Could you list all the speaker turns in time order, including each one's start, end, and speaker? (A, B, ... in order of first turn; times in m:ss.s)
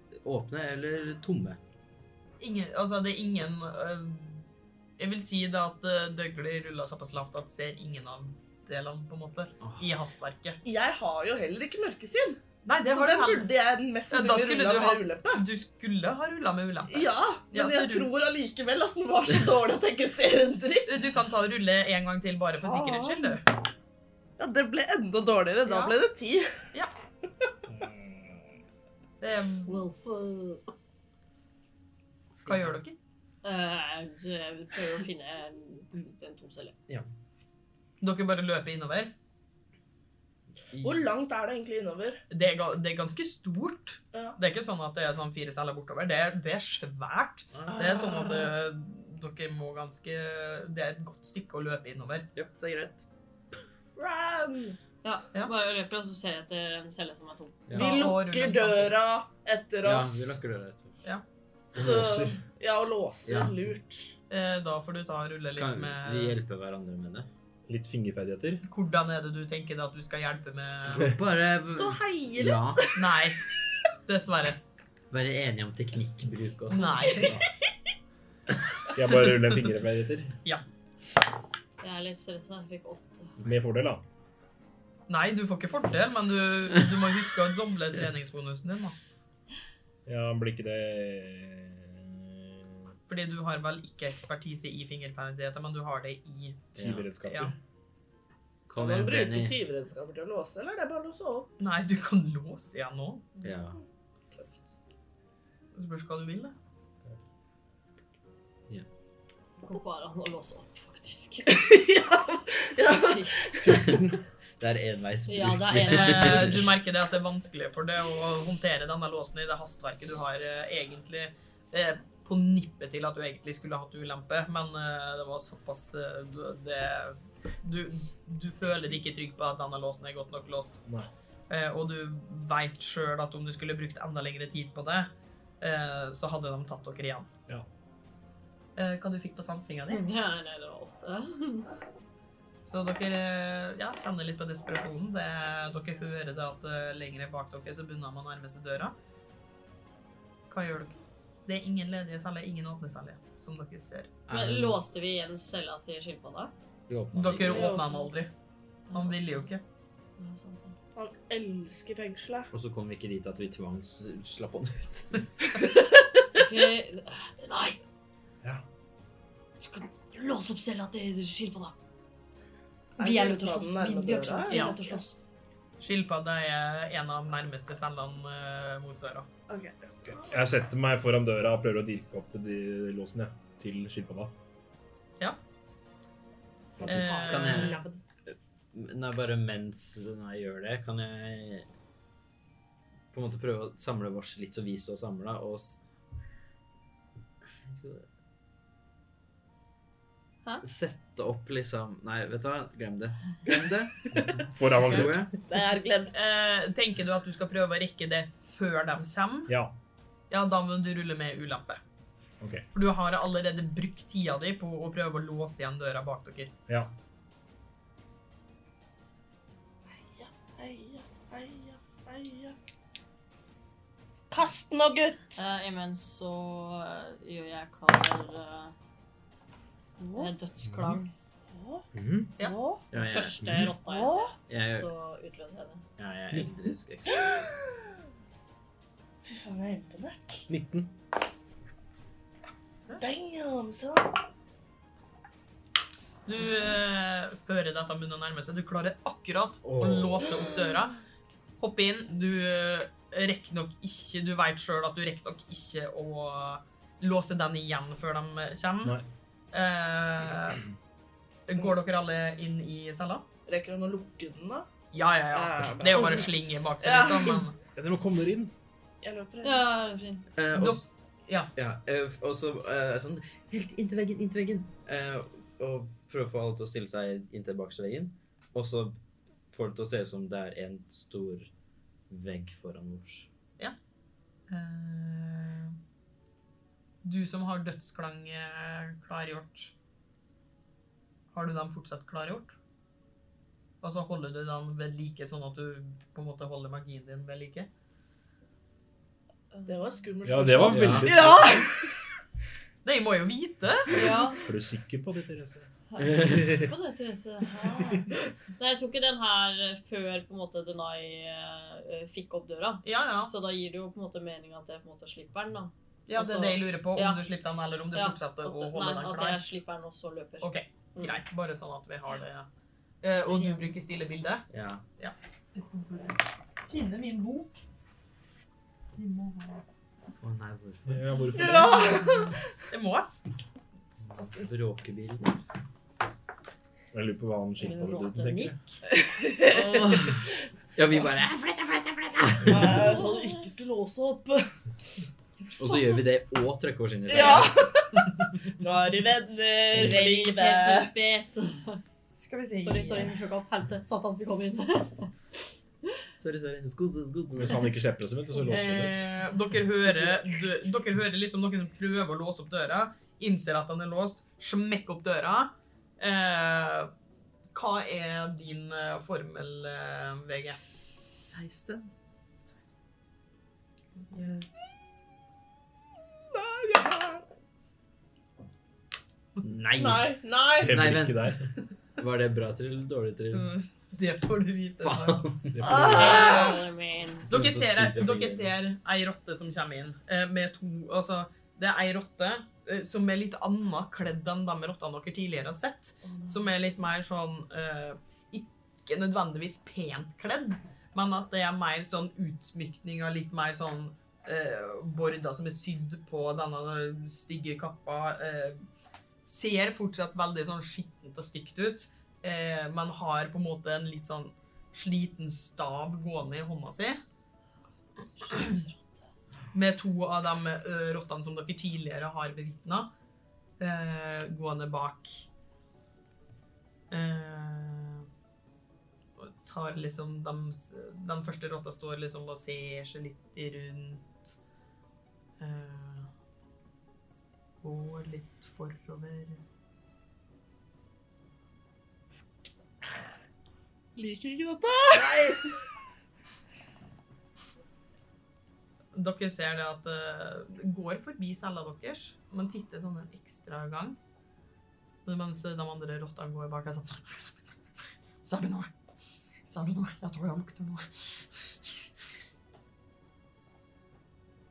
0:00.2-0:01.6 A
0:02.4-0:04.5 B
0:05.0-0:10.6 B
0:09.6-0:09.9 A
0:10.6-0:15.4 C
0:12.6-0:13.5 B
0:14.1-0:18.1 B
0:16.9-0:21.0 C
0:20.8-0:23.4 B
0:22.6-0:23.4 C
0:24.4-0:26.5 C
0:25.7-0:26.0 B
0:27.8-0:28.2 A
0:29.2-0:29.8 B
0:29.7-0:30.6 D
0:32.4-0:33.0 B
0:33.4-0:36.8 D
0:38.0-0:39.1 B
0:40.7-0:41.1 A
0:40.8-0:42.2 C
0:42.3-0:52.3 B
0:44.1-0:44.4 C
0:47.5-0:48.3 A
0:52.4-0:53.0 A
0:54.0-0:54.8 C
0:55.0-0:57.6 D
0:57.7-0:58.1 A
0:57.7-1:00.3 C
0:57.7-0:59.0 B
0:59.8-1:01.0 A
1:01.7-1:04.1 C
1:01.8-1:02.4 E
1:03.2-1:03.7 A
1:04.3-1:06.4 B
1:05.6-1:07.3 A
1:07.7-1:08.6 E
1:08.6-1:11.1 B
1:10.9-1:12.9 A
1:11.7-1:12.9 C
1:13.0-1:13.4 B
1:14.1-1:14.6 B
1:15.1-1:17.4 A
1:16.7-1:17.3 B
1:18.9-1:20.3 E
1:21.8-1:23.3 D
1:23.4-1:24.0 E
1:25.1-1:29.0 B
1:30.1-1:32.6 E
1:33.1-1:37.5 B
1:36.8-1:37.2 A
1:36.8-1:37.5 E
1:38.7-1:39.6 A
1:38.7-1:41.5 C
1:41.6-1:43.3 B
1:43.4-1:43.8 A
1:45.8-1:46.6 B
1:49.6-1:52.0 D
1:51.6-1:53.8 C
1:52.9-1:53.4 D
1:53.7-1:54.1 A
1:53.8-1:54.1 E
1:54.6-1:56.7 A
1:55.3-1:56.6 D
1:55.8-2:10.8 B
2:11.5-2:15.1 B
2:15.6-2:17.3 B
2:18.8-2:20.0 B
2:19.9-2:21.7 D
2:22.7-2:28.9 B
2:30.5-2:34.1 B
2:34.3-2:34.8 A
2:34.3-2:36.5 D
2:36.9-2:37.8 A
2:37.1-2:38.3 B
2:37.5-2:37.9 C
2:38.9-2:39.2 D
2:38.9-2:39.6 B
2:40.2-2:40.8 D
2:41.0-2:42.5 C
2:42.5-2:45.3 A
2:46.3-2:47.8 D
2:49.6-2:51.8 D
2:53.0-2:55.0 C
2:53.0-2:55.2 D
2:54.5-2:54.8 B
2:55.8-2:59.3 B
2:59.5-2:59.8 C
3:00.1-3:04.3 E
3:06.8-3:07.8 B
3:06.9-3:11.7 A
3:07.0-3:08.0 D
3:07.0-3:07.6 C
3:13.1-3:15.9 A
3:17.7-3:18.1 A
3:20.6-3:25.4 A
3:24.2-3:25.3 E
3:25.4-3:26.4 C
3:26.1-3:29.5 B
3:29.5-3:29.7 E
3:30.3-3:31.8 B
3:32.4-3:32.7 E
3:32.7-3:36.5 B
3:39.9-3:42.6 C
3:44.3-3:45.4 C
3:45.4-3:48.7 D
3:50.0-3:50.3 C
3:50.1-3:51.1 D
3:50.6-3:51.1 E
3:51.5-3:51.9 C
3:51.9-3:52.3 E
3:52.4-3:52.8 C
3:52.9-3:53.4 A
3:53.0-3:55.8 D
3:53.4-3:53.7 E
3:53.8-3:54.3 C
3:54.5-3:54.9 A
3:56.0-3:57.5 A
3:57.2-3:57.8 C
3:59.2-4:00.5 C
4:00.5-4:00.9 E
4:03.0-4:04.1 C
4:06.3-4:11.0 B
4:09.6-4:10.3 E
4:11.6-4:19.0 B
4:19.5-4:20.6 B
4:21.5-4:23.2 B
4:23.5-4:24.7 C
4:24.9-4:27.6 B
4:25.3-4:27.5 C
4:27.8-4:28.5 E
4:29.0-4:29.7 C
4:29.4-4:30.3 D
4:30.4-4:30.9 A
4:30.5-4:31.5 B
4:31.6-4:39.0 A
4:39.5-4:41.5 A
4:42.1-4:43.3 A
4:44.5-4:45.8 B
4:47.0-4:49.7 B
4:51.3-4:52.6 B
4:53.8-4:57.7 B
4:59.5-5:00.0 D
4:59.7-5:02.0 C
5:00.2-5:01.7 E
5:00.6-5:01.3 A
5:02.8-5:04.0 B
5:03.9-5:04.4 D
5:03.9-5:05.7 E
5:05.9-5:17.2 D
5:06.0-5:06.7 A
5:12.8-5:13.3 B
5:16.1-5:19.4 B
5:17.9-5:21.2 D
5:20.4-5:22.5 B
5:23.0-5:24.5 B
5:23.3-5:23.6 D
5:24.5-5:24.8 A
5:25.0-5:27.6 B
5:29.0-5:29.6 B
5:30.2-5:31.4 A
5:30.9-5:32.2 E
5:31.4-5:32.4 C
5:32.7-5:33.2 B
5:34.0-5:35.4 A
5:36.9-5:38.5 E
5:37.6-5:38.8 D
5:38.9-5:40.2 C
5:39.5-5:40.2 A
5:40.8-5:42.8 A
5:42.5-5:44.5 C
5:45.6-5:48.2 A
5:47.1-5:48.0 C
5:48.6-5:50.9 C
5:49.7-5:51.8 D
5:52.2-5:53.2 B
5:52.6-5:55.1 D
5:56.2-5:57.6 A
5:57.3-5:59.1 E
5:58.5-6:06.9 B
6:07.5-6:10.6 B
6:11.2-6:11.9 A
6:16.3-6:17.2 C
6:19.4-6:20.1 A
6:19.8-6:20.8 C
6:20.6-6:21.5 E
6:20.7-6:23.5 A
6:23.3-6:25.3 B
6:24.8-6:26.1 A
6:25.5-6:26.3 E
6:25.6-6:26.6 C
6:25.9-6:27.3 D
6:26.0-6:26.6 B
6:27.3-6:28.5 A
6:27.3-6:48.6 B
6:36.0-6:36.5 D
6:49.2-6:57.0 B
6:58.2-6:58.9 D
6:58.3-6:58.6 B
6:59.5-7:02.9 B
7:03.6-7:05.3 B
7:06.9-7:08.1 B
7:09.2-7:14.3 B
7:15.4-7:16.1 B
7:17.6-7:19.4 B
7:24.0-7:25.4 C
7:29.0-7:34.0 B
7:35.0-7:37.4 B
7:38.2-7:38.7 B
7:39.5-7:41.7 B